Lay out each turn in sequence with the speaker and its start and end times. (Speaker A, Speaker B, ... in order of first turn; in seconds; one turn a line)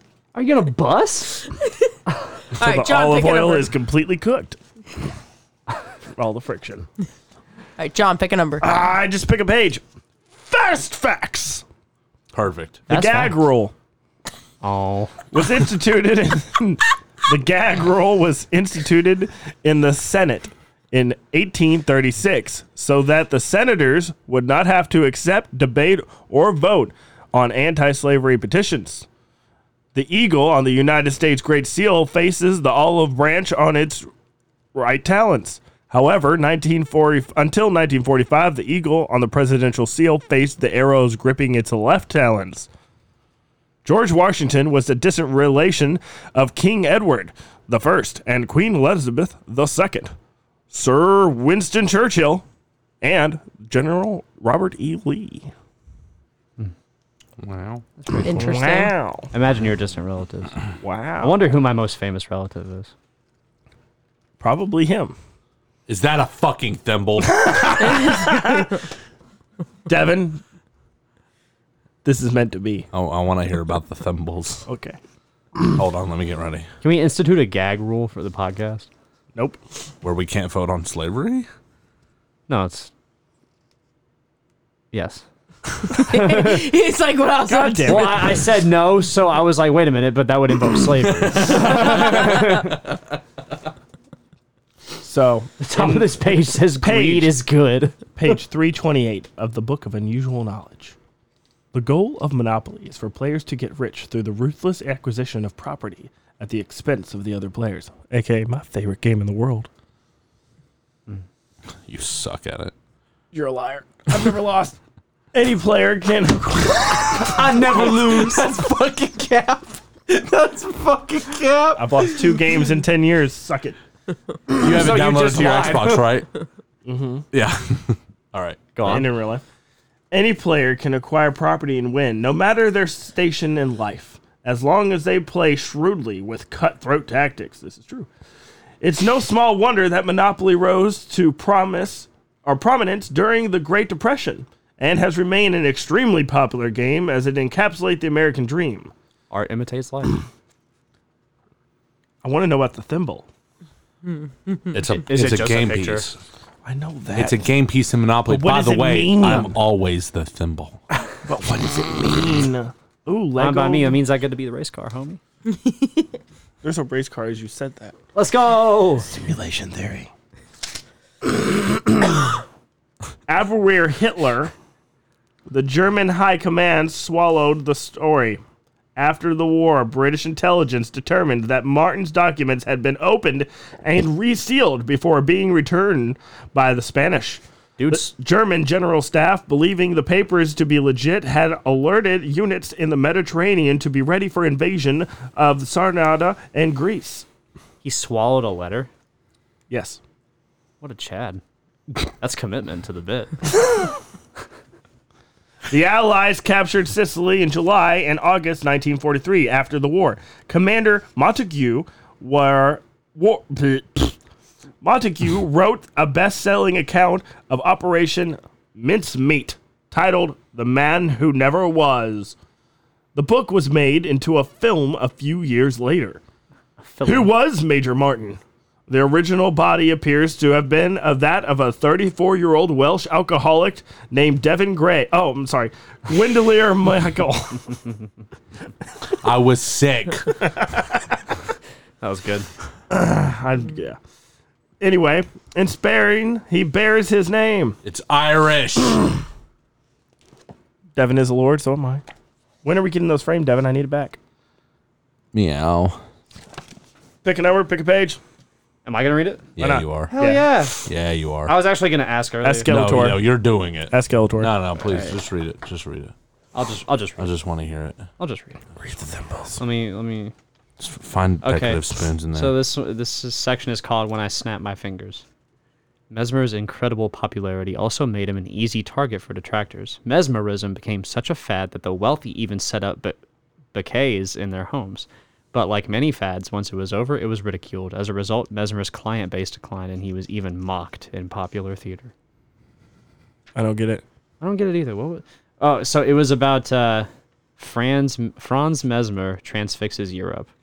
Speaker A: 0.3-1.4
Speaker B: 2.5-3.7
Speaker C: 2.6-4.6
Speaker C: 6.2-6.9
Speaker B: 7.8-8.7
Speaker C: 8.6-9.8
Speaker C: 10.4-11.6
Speaker D: 12.3-12.8
Speaker C: 12.9-13.7
Speaker A: 12.9-13.4
Speaker A: 14.6-15.1
Speaker C: 15.3-29.1
Speaker C: 29.9-34.0
Speaker C: 34.7-42.7
Speaker C: 43.8-50.1
Speaker C: 50.7-52.4
Speaker C: 53.0-55.5
Speaker D: 57.4-57.8
Speaker A: 58.0-58.3
Speaker B: 58.2-58.9
Speaker C: 58.2-59.3
Speaker A: 59.3-60.5
Speaker C: 60.8-61.3
Speaker A: 61.2-62.9
Speaker C: 64.4-65.1
Speaker D: 65.9-68.0
Speaker C: 67.3-68.7
Speaker C: 69.9-70.4
Speaker C: 72.0-72.9
Speaker D: 72.9-74.6
Speaker C: 74.7-75.0
Speaker D: 75.7-76.7
Speaker A: 76.8-78.9
Speaker D: 80.0-81.5
Speaker A: 82.5-82.9
Speaker A: 84.9-85.2
Speaker B: 85.9-88.2
Speaker A: 85.9-86.6
Speaker C: 87.5-88.4
Speaker A: 87.9-92.8
Speaker C: 95.0-96.1
Speaker A: 95.6-98.0
Speaker C: 96.8-97.3
Speaker C: 98.2-100.9
Speaker C: 101.7-109.7
Speaker D: 111.8-112.7
Speaker C: 113.3-114.7
Speaker C: 115.3-117.4
Speaker A: 117.2-118.4
Speaker D: 117.6-122.3
Speaker C: 121.8-123.8
Speaker D: 124.5-126.3
Speaker A: 124.6-126.1
Speaker C: 126.8-127.2
Speaker D: 127.3-128.6
Speaker A: 128.8-129.1
Speaker C: 128.8-129.4
Speaker C: 130.1-138.1
Speaker C: 138.8-148.9
Speaker A: 149.3-150.2
Speaker C: 152.2-153.2
Speaker D: 154.7-156.2
Speaker A: 155.0-156.1
Speaker C: 156.6-157.5
Speaker D: 157.1-160.8
Speaker C: 158.2-159.5
Speaker C: 161.2-164.0
Speaker A: 163.4-165.2
Speaker B: 165.7-166.1
Speaker C: 166.6-167.9
Speaker A: 168.1-169.1
Speaker C: 169.1-170.1
Speaker C: 171.3-172.1
Speaker C: 173.3-174.5
Speaker C: 175.5-178.4
Speaker C: 178.9-197.2
Speaker A: 187.8-188.1
Speaker A: 197.8-198.9
Speaker C: 199.7-200.0
Speaker A: 200.8-203.4
Speaker C: 205.7-214.1
Speaker C: 214.8-222.3
Speaker C: 223.1-226.2
Speaker A: 226.8-227.3
Speaker C: 227.0-237.7
Speaker D: 239.2-240.3
Speaker A: 242.0-242.5
Speaker C: 242.9-244.0
Speaker C: 244.8-247.8
Speaker D: 247.8-249.0
Speaker C: 250.9-252.0
Speaker C: 252.6-254.2
Speaker D: 255.3-256.0
Speaker C: 257.2-258.2
Speaker A: 258.8-259.5
Speaker D: 259.6-260.1
Speaker C: 259.6-260.4
Speaker A: 260.1-260.8
Speaker D: 260.8-261.5
Speaker A: 261.4-262.8
Speaker C: 262.4-263.3
Speaker D: 262.6-266.1
Speaker C: 263.9-264.5
Speaker A: 264.9-265.1
Speaker A: 266.5-267.3
Speaker D: 267.2-268.1
Speaker A: 268.2-268.6
Speaker C: 268.8-269.6
Speaker A: 269.6-270.3
Speaker D: 270.8-272.6
Speaker A: 271.4-275.2
Speaker A: 276.1-283.2
Speaker A: 283.7-292.1
Speaker C: 293.6-294.0
Speaker A: 294.4-300.5